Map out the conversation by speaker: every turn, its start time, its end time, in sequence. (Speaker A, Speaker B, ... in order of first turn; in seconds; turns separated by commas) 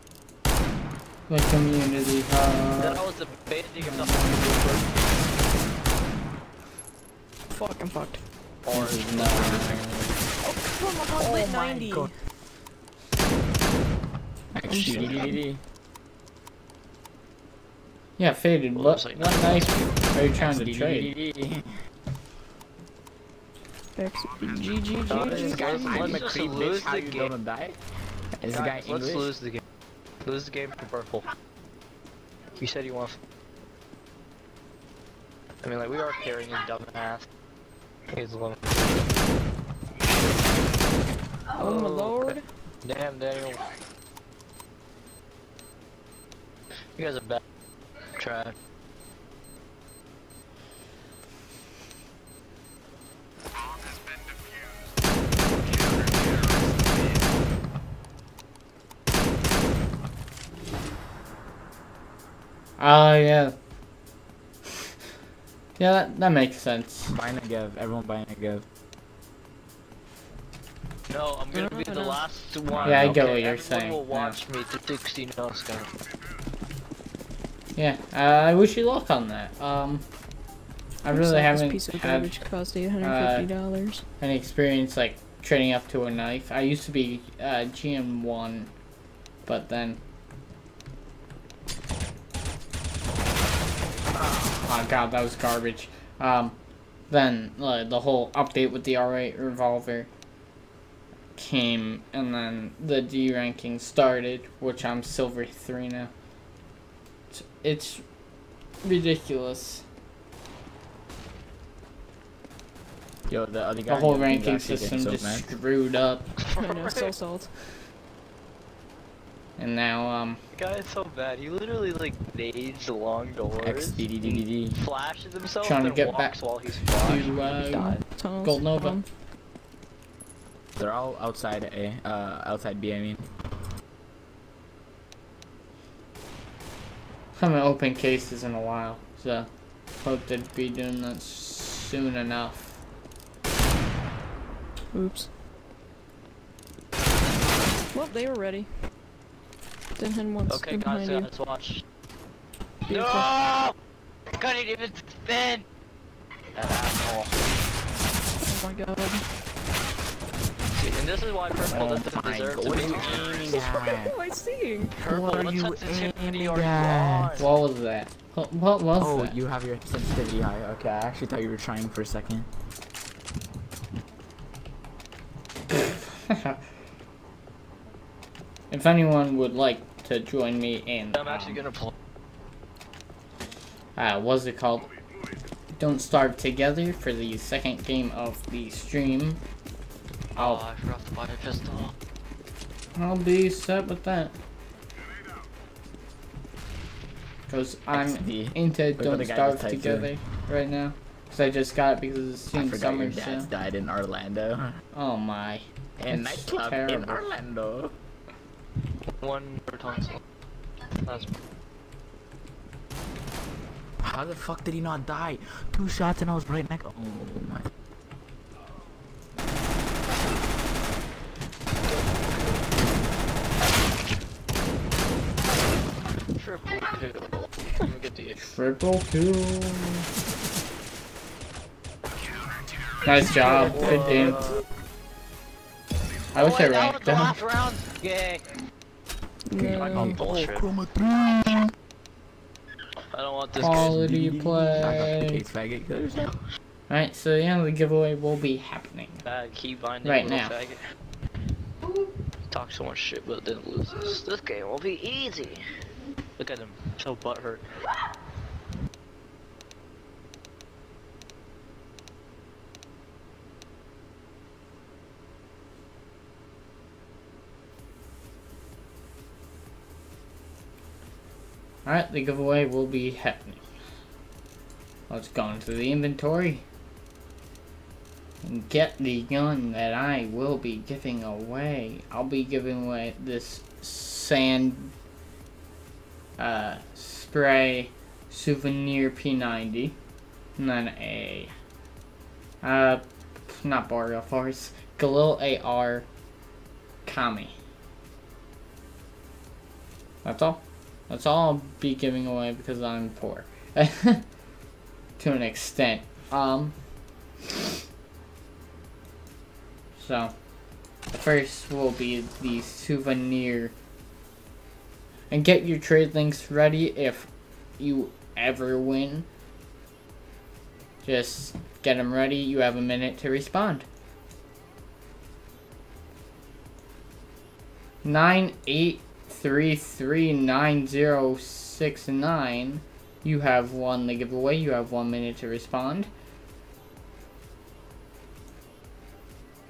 Speaker A: 1.3-3.0, Speaker B: 2.8-4.9, Speaker A: 3.8-4.8, Speaker C: 7.5-8.2, Speaker B: 8.6-9.7, Speaker A: 8.7-10.1, Speaker D: 9.1-9.9, Speaker C: 10.4-12.1, Speaker D: 11.2-12.1, Speaker D: 14.5-15.6, Speaker C: 14.7-15.4, Speaker A: 18.2-21.1, Speaker B: 18.7-20.0, Speaker D: 20.4-21.8, Speaker C: 23.9-26.2, Speaker B: 25.1-27.3, Speaker D: 25.2-27.8, Speaker D: 28.3-29.3, Speaker B: 28.5-29.6, Speaker B: 30.2-31.3, Speaker B: 32.5-33.2, Speaker B: 35.6-37.3, Speaker B: 38.1-39.1, Speaker C: 41.6-42.4, Speaker B: 41.6-43.7, Speaker B: 47.0-47.4, Speaker B: 48.1-48.5, Speaker A: 62.8-63.5, Speaker A: 65.8-67.2, Speaker D: 67.1-68.7, Speaker B: 71.1-75.9, Speaker C: 71.5-72.2, Speaker D: 72.7-73.2, Speaker A: 72.8-74.4, Speaker A: 77.7-80.0, Speaker A: 81.0-82.3, Speaker C: 81.1-84.0, Speaker A: 83.0-83.5, Speaker A: 84.2-88.7, Speaker A: 89.4-90.0, Speaker A: 94.6-96.6, Speaker A: 97.1-100.1, Speaker A: 101.3-106.1, Speaker A: 107.3-108.0, Speaker A: 108.8-109.8, Speaker D: 113.3-115.5, Speaker A: 113.9-116.3, Speaker B: 116.4-117.1, Speaker C: 116.5-117.5, Speaker A: 119.6-120.4, Speaker B: 120.5-124.0, Speaker D: 123.6-124.8, Speaker B: 124.7-127.9, Speaker A: 125.6-126.3, Speaker A: 127.0-129.0, Speaker C: 127.7-129.1, Speaker D: 130.8-133.3, Speaker A: 137.3-139.5, Speaker A: 140.0-142.8, Speaker C: 144.9-145.3, Speaker C: 147.9-148.7, Speaker C: 149.9-151.3, Speaker B: 150.5-151.8, Speaker C: 152.9-153.3, Speaker B: 152.9-153.7, Speaker B: 154.3-155.6, Speaker B: 156.5-157.4, Speaker C: 158.4-159.2, Speaker B: 160.7-163.5, Speaker D: 161.7-164.1, Speaker C: 163.0-164.9, Speaker B: 165.0-167.5, Speaker D: 165.0-167.3, Speaker A: 167.4-169.3, Speaker D: 169.0-172.5, Speaker A: 175.7-176.7, Speaker A: 178.7-181.6, Speaker B: 181.1-181.9, Speaker A: 183.9-184.9, Speaker A: 185.8-189.4, Speaker A: 190.3-190.6, Speaker B: 190.3-191.9, Speaker A: 192.9-194.3, Speaker A: 197.5-203.5, Speaker D: 197.9-200.1, Speaker D: 202.5-204.7, Speaker A: 204.9-207.3, Speaker D: 206.0-207.9, Speaker B: 209.2-210.2, Speaker B: 210.9-211.4, Speaker D: 214.0-217.7, Speaker B: 226.3-228.4, Speaker A: 228.5-230.1, Speaker A: 233.0-234.4, Speaker B: 233.5-234.6, Speaker D: 233.5-234.6, Speaker B: 236.3-238.6, Speaker A: 236.3-237.3, Speaker C: 239.5-240.2, Speaker D: 239.6-241.7, Speaker B: 239.7-240.7, Speaker B: 243.1-243.9, Speaker D: 243.6-246.4, Speaker A: 243.6-245.4, Speaker A: 246.9-249.2, Speaker B: 249.2-250.9, Speaker A: 250.0-250.5, Speaker B: 252.5-255.6, Speaker B: 256.4-257.6, Speaker A: 271.8-273.6, Speaker A: 275.1-276.6, Speaker A: 278.4-284.9, Speaker A: 286.4-289.9, Speaker A: 290.6-291.5, Speaker A: 292.6-296.1, Speaker A: 297.0-297.6, Speaker A: 300.2-304.3, Speaker A: 305.2-306.8, Speaker A: 309.9-310.3, Speaker A: 311.1-313.7, Speaker A: 315.3-319.3, Speaker A: 321.0-323.9, Speaker A: 328.0-336.1